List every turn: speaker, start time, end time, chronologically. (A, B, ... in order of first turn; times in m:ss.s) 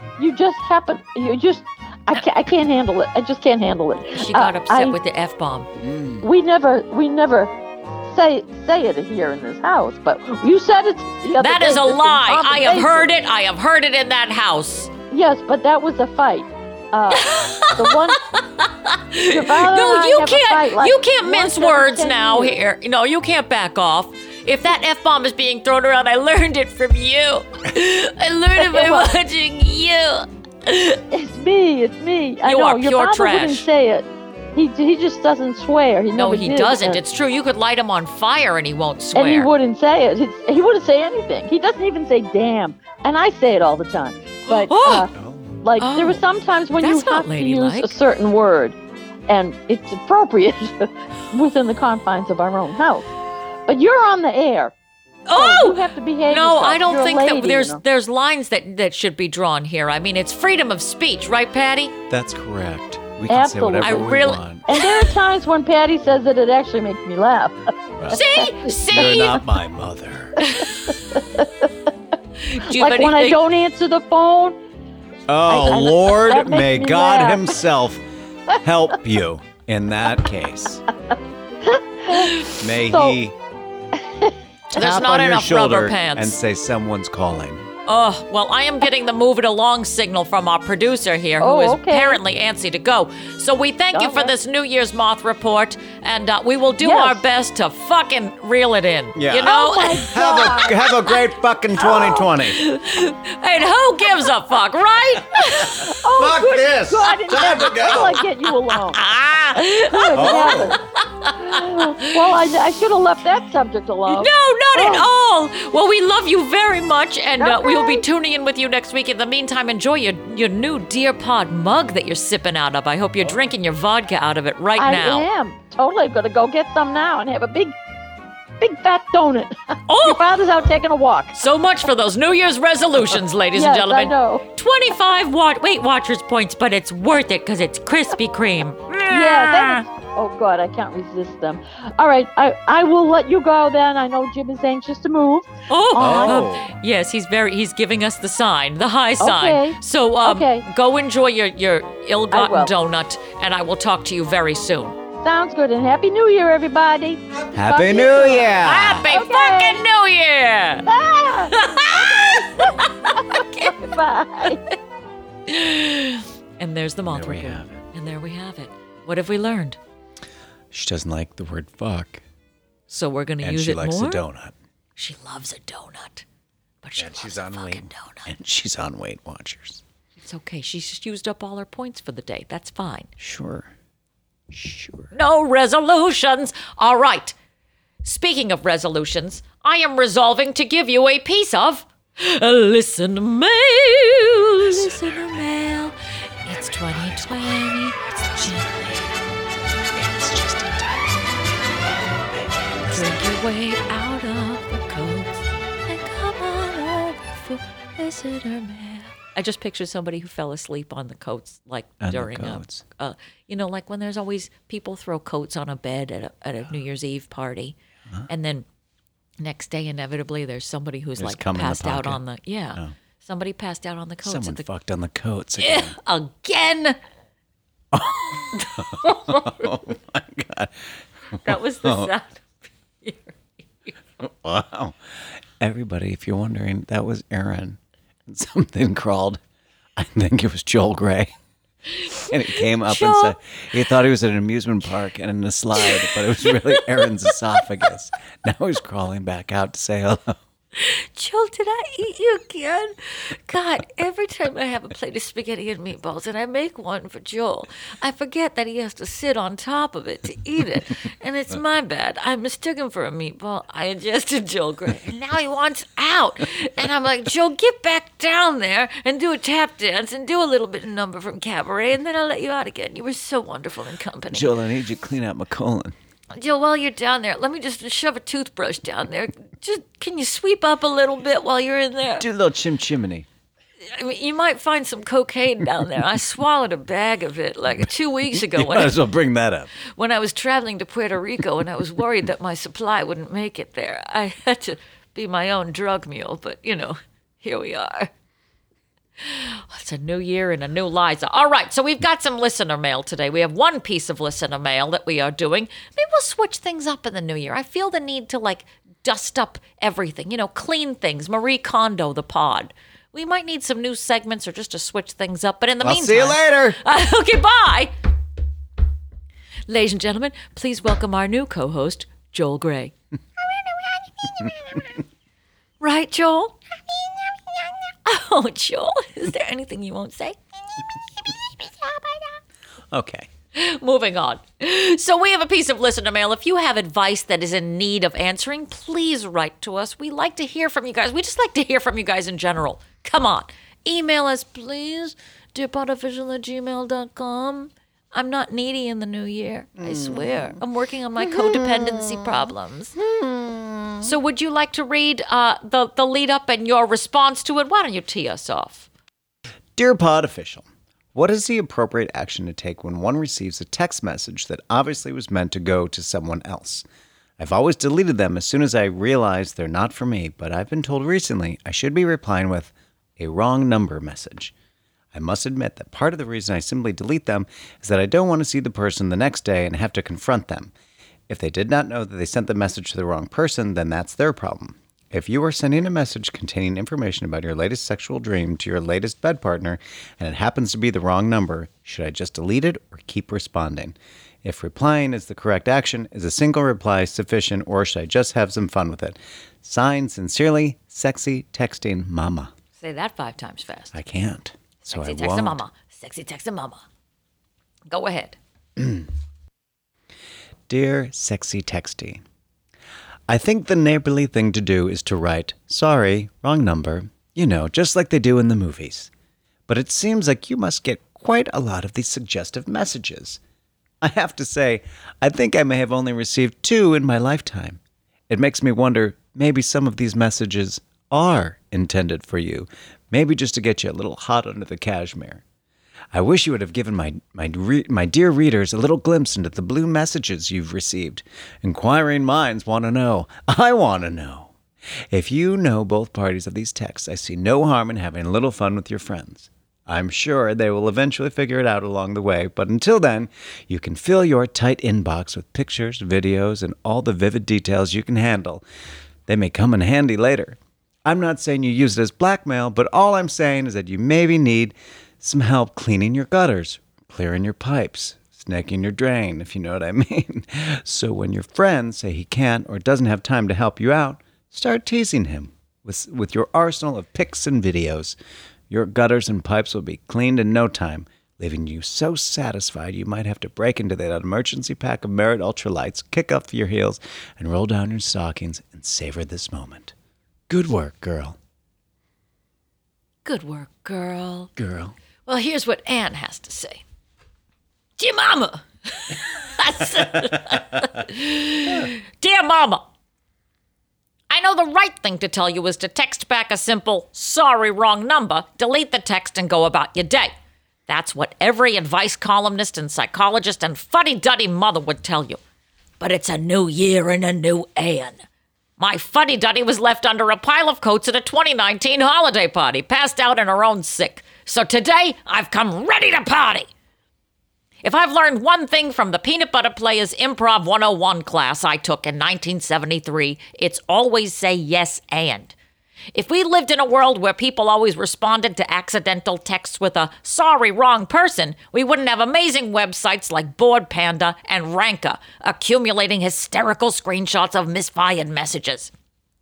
0:00.2-0:05.0 A
0:04.1-0:05.7 B
0:05.8-0:06.2 C
0:06.2-0:07.5 A
0:08.0-0:13.1 A
0:11.4-0:14.9 B
0:15.1-0:18.2 A
0:17.1-0:31.0 B
0:19.3-0:22.6 A
0:28.6-0:29.1 A
0:31.1-0:37.0 A
0:32.4-0:33.7 B
0:36.1-0:39.5 B
0:39.2-0:48.8 A
0:44.5-0:45.1 B
0:45.1-0:45.6 C
0:45.8-0:46.2 B
0:46.8-0:47.9 B
0:49.3-0:53.1 A
0:53.7-0:54.7 A
0:55.3-1:01.9 B
0:55.4-0:57.8 A
1:02.1-1:04.7 C
1:03.3-1:04.1 A
1:03.8-1:05.1 B
1:04.7-1:09.2 A
1:08.1-1:09.4 B
1:08.9-1:10.4 C
1:10.4-1:10.8 B
1:10.6-1:11.7 A
1:12.4-1:13.4 B
1:12.7-1:14.6 A
1:15.3-1:20.8 C
1:15.5-1:17.5 A
1:21.6-1:23.2 A
1:22.1-1:22.6 B
1:22.6-1:23.4 C
1:24.0-1:24.4 A
1:24.7-1:27.6 C
1:24.7-1:26.4 B
1:27.9-1:40.2 B
1:31.4-1:32.2 A
1:33.9-1:34.3 A
1:36.8-1:37.2 A
1:39.2-1:42.6 C
1:39.4-1:40.8 A
1:41.8-1:42.2 A
1:42.1-1:45.9 B
1:45.5-1:50.8 A
1:46.0-1:48.2 C
1:47.8-1:52.4 B
1:50.1-1:50.8 C
1:51.4-1:55.1 A
1:54.1-2:05.3 B
1:57.4-1:58.0 A
2:04.8-2:07.7 A
2:08.6-2:11.4 A
2:09.9-2:10.2 B
2:11.3-2:19.8 B
2:13.5-2:14.4 A
2:19.1-2:26.4 A
2:25.7-2:35.0 B
2:26.0-2:26.7 C
2:29.2-2:30.7 A
2:32.3-2:32.7 A
2:35.2-2:39.8 A
2:37.5-2:39.1 C
2:38.6-2:40.9 B
2:40.9-2:44.6 A
2:41.5-2:43.8 B
2:45.5-2:49.8 B
2:47.1-2:47.8 C
2:50.7-2:52.2 C
2:52.9-2:54.2 B
2:53.4-2:54.5 C
2:55.0-2:56.2 B
2:56.8-2:58.3 B
2:57.0-2:59.8 C
3:00.2-3:03.1 B
3:03.2-3:03.7 C
3:04.5-3:05.1 C
3:05.1-3:07.4 B
3:08.0-3:19.0 B
3:14.6-3:15.5 C
3:16.5-3:18.9 C
3:19.9-3:21.4 C
3:22.3-3:23.2 C
3:22.9-3:37.8 B
3:32.0-3:32.8 C
3:38.3-3:38.7 B
3:39.4-3:44.6 B
3:41.2-3:42.2 C
3:44.2-3:46.0 C
3:45.6-3:47.0 B
3:47.9-3:52.1 C
3:48.5-3:49.7 B
3:51.4-3:53.9 B
3:54.2-3:59.4 C
4:00.0-4:01.3 C
4:01.9-4:03.4 B
4:02.3-4:10.4 C
4:05.8-4:07.4 B
4:10.8-4:34.5 B
4:34.3-4:36.0 C
4:36.3-4:42.3 B
4:42.2-4:43.3 C
4:43.9-4:49.0 B
4:48.3-4:49.7 C
4:49.9-4:58.1 B
4:59.2-5:17.9 B
5:15.8-5:16.8 C
5:19.7-5:22.9 B
5:24.2-5:24.9 B
5:25.8-5:26.6 B
5:28.0-5:30.4 B
5:31.2-5:32.4 B
5:32.9-5:33.3 C
5:33.5-5:53.0 B
5:49.8-5:50.6 C
5:51.2-5:54.1 C
5:54.0-5:58.9 B
5:59.8-6:06.8 C
6:07.4-6:14.5 C
6:15.1-6:20.7 C
6:21.3-6:42.5 C
6:42.8-6:44.0 B
6:43.9-6:45.6 C
6:44.8-6:46.8 B
6:47.9-6:48.4 B
6:48.8-6:49.1 C
6:50.7-6:52.2 C
6:53.3-6:59.1 C
6:59.7-7:03.4 C
7:04.0-7:15.4 C
7:16.1-7:24.6 C
7:25.1-7:38.6 C
7:39.3-7:58.2 C
7:58.7-8:09.9 C
8:10.5-8:11.4 C
8:13.2-8:14.5 B
8:14.6-8:14.9 C
8:15.3-8:16.8 B
8:18.0-8:22.8 B
8:24.3-8:30.3 B
8:30.9-8:35.4 B
8:36.0-8:38.2 B
8:38.8-8:46.7 B
8:47.8-8:55.5 B
8:56.2-9:08.9 B